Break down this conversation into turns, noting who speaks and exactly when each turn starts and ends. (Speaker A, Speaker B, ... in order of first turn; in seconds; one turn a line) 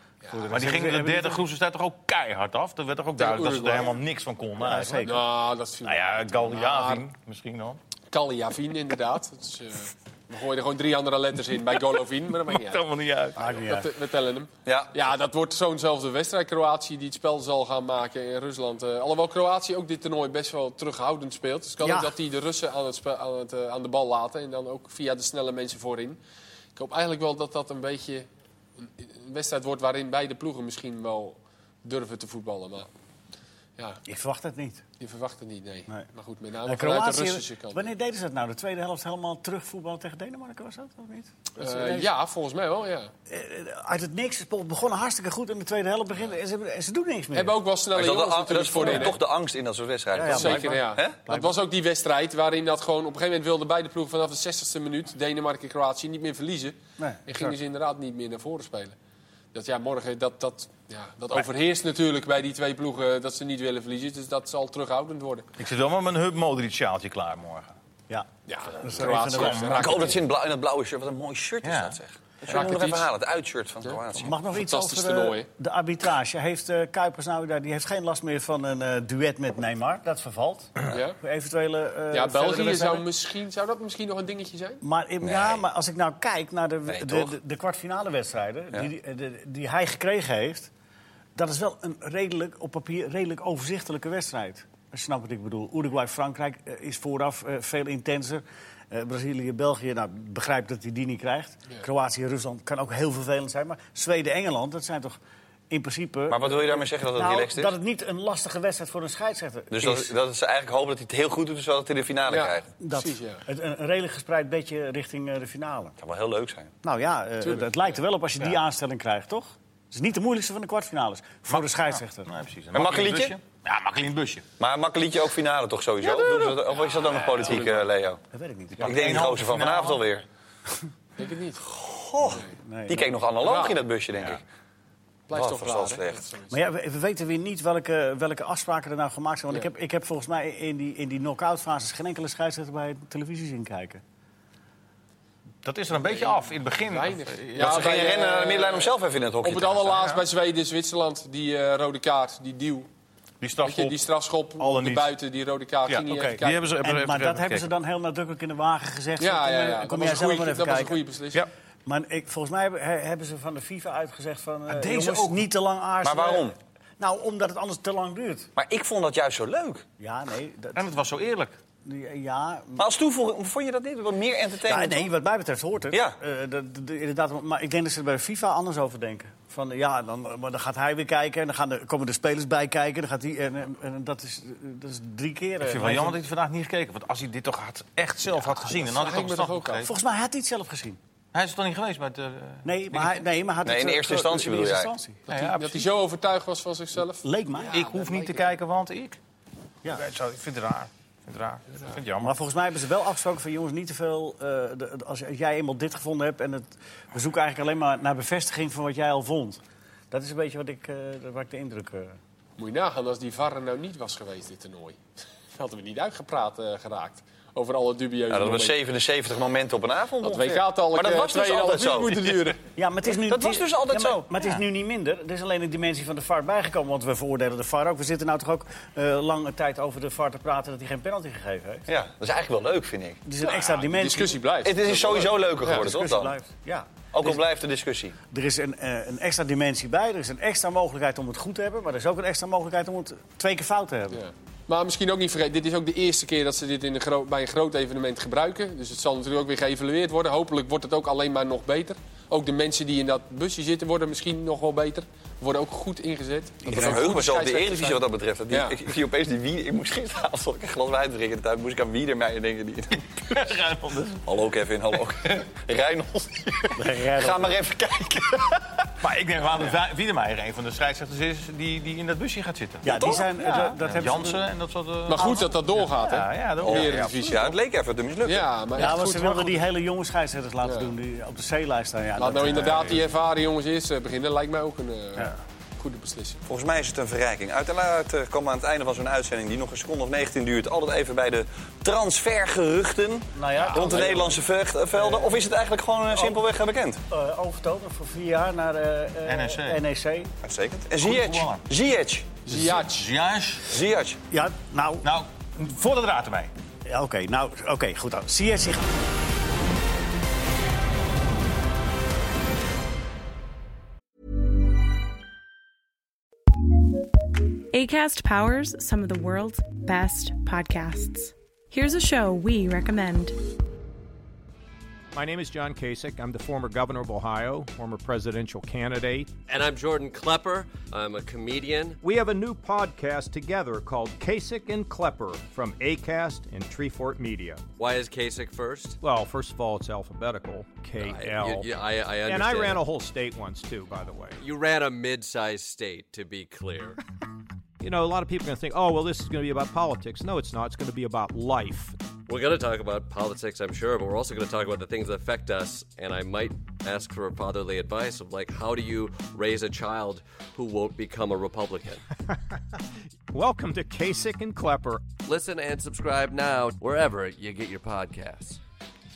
Speaker A: 0.3-1.4
Speaker B: 0.5-5.2
Speaker C: 3.2-4.0
Speaker A: 4.6-5.2
Speaker C: 5.0-7.0
Speaker B: 5.8-7.8
Speaker C: 8.1-12.8
Speaker B: 12.5-13.6
Speaker A: 13.4-13.9
Speaker C: 13.6-26.2
Speaker D: 14.7-14.9
Speaker A: 21.8-22.1
Speaker C: 26.8-28.3
Speaker C: 28.8-32.9
Speaker A: 34.0-34.8
Speaker C: 35.0-37.9
Speaker A: 36.7-42.1
Speaker C: 41.5-43.1
Speaker A: 43.3-47.6
Speaker C: 47.3-49.2
Speaker D: 47.9-51.2
Speaker A: 48.8-49.1
Speaker A: 50.1-51.5
Speaker C: 50.3-59.0
Speaker A: 57.0-57.6
Speaker C: 59.5-65.5
Speaker B: 65.6-67.8
Speaker C: 68.5-70.2
Speaker A: 68.8-69.9
Speaker B: 69.1-70.1
Speaker D: 69.8-74.3
Speaker B: 71.6-73.1
Speaker A: 72.5-72.8
Speaker A: 74.1-83.1
Speaker C: 74.6-75.5
Speaker C: 80.9-81.2
Speaker C: 82.1-84.8
Speaker A: 84.8-90.7
Speaker D: 85.2-85.6
Speaker D: 86.9-87.3
Speaker A: 91.4-105.2
Speaker A: 105.7-110.1
Speaker D: 106.3-107.7
Speaker D: 109.7-112.7
Speaker C: 112.3-113.5
Speaker A: 112.8-116.0
Speaker D: 116.0-116.7
Speaker A: 116.8-122.3
Speaker C: 117.4-118.0
Speaker B: 121.5-124.5
Speaker D: 122.7-123.3
Speaker D: 124.6-128.2
Speaker B: 126.0-126.9
Speaker C: 126.8-127.9
Speaker A: 128.3-129.4
Speaker B: 128.8-130.0
Speaker D: 128.8-130.2
Speaker C: 131.2-131.6
Speaker D: 131.7-134.4
Speaker A: 132.4-133.1
Speaker C: 133.4-134.3
Speaker C: 135.3-136.6
Speaker D: 135.3-136.2
Speaker A: 136.5-144.0
Speaker B: 145.6-148.1
Speaker C: 146.0-152.9
Speaker D: 147.6-150.0
Speaker B: 153.4-154.0
Speaker C: 153.6-156.6
Speaker B: 154.6-155.2
Speaker B: 155.9-157.7
Speaker A: 156.1-161.0
Speaker C: 159.2-161.5
Speaker A: 161.9-168.5
Speaker B: 164.7-165.5
Speaker D: 166.0-166.6
Speaker D: 168.6-169.9
Speaker A: 170.0-170.9
Speaker B: 170.8-171.6
Speaker A: 171.8-172.9
Speaker D: 172.8-175.1
Speaker A: 174.7-186.2
Speaker B: 185.6-189.9
Speaker C: 188.7-189.9
Speaker A: 189.8-191.0
Speaker B: 191.3-193.2
Speaker A: 192.6-195.2
Speaker D: 193.6-194.9
Speaker C: 195.3-198.6
Speaker B: 195.3-195.9
Speaker A: 197.2-197.8
Speaker B: 197.7-199.2
Speaker B: 199.9-202.3
Speaker A: 202.2-212.2
Speaker C: 212.6-215.0
Speaker C: 215.5-218.8
Speaker D: 218.3-222.4
Speaker C: 220.2-222.6
Speaker A: 222.8-231.9
Speaker D: 223.2-224.3
Speaker D: 231.9-233.2
Speaker A: 233.2-234.4
Speaker C: 233.4-235.9
Speaker D: 234.6-236.3
Speaker A: 235.6-237.4
Speaker D: 237.1-238.2
Speaker A: 238.3-244.2
Speaker C: 244.1-258.8
Speaker A: 256.6-257.1
Speaker D: 256.7-263.4
Speaker B: 263.3-264.2
Speaker D: 264.2-268.7
Speaker A: 266.8-267.6
Speaker B: 269.0-277.5
Speaker A: 272.9-274.5
Speaker D: 272.9-273.3
Speaker C: 275.1-277.6
Speaker A: 275.2-275.5
Speaker D: 276.6-278.5
Speaker C: 278.2-279.6
Speaker A: 278.8-283.0
Speaker C: 280.6-280.9
Speaker C: 282.2-286.4
Speaker B: 282.6-283.0
Speaker D: 286.5-297.0
Speaker A: 293.4-294.4
Speaker B: 293.6-294.0
Speaker A: 295.0-295.4
Speaker A: 296.1-296.4
Speaker A: 297.1-300.3
Speaker B: 299.3-299.8
Speaker D: 300.4-302.4
Speaker B: 301.0-301.7
Speaker C: 302.4-303.1
Speaker B: 302.5-303.7
Speaker D: 303.7-304.2
Speaker A: 304.3-305.1
Speaker B: 305.0-306.5
Speaker A: 306.9-308.9
Speaker E: 317.7-323.4
Speaker F: 325.1-329.3
Speaker G: 329.5-332.0
Speaker F: 332.0-337.6
Speaker G: 337.8-339.0
Speaker F: 339.0-344.4
Speaker G: 341.0-342.9
Speaker G: 344.4-347.0
Speaker F: 347.8-352.0
Speaker G: 352.3-362.0
Speaker F: 363.3-365.1
Speaker G: 365.2-368.6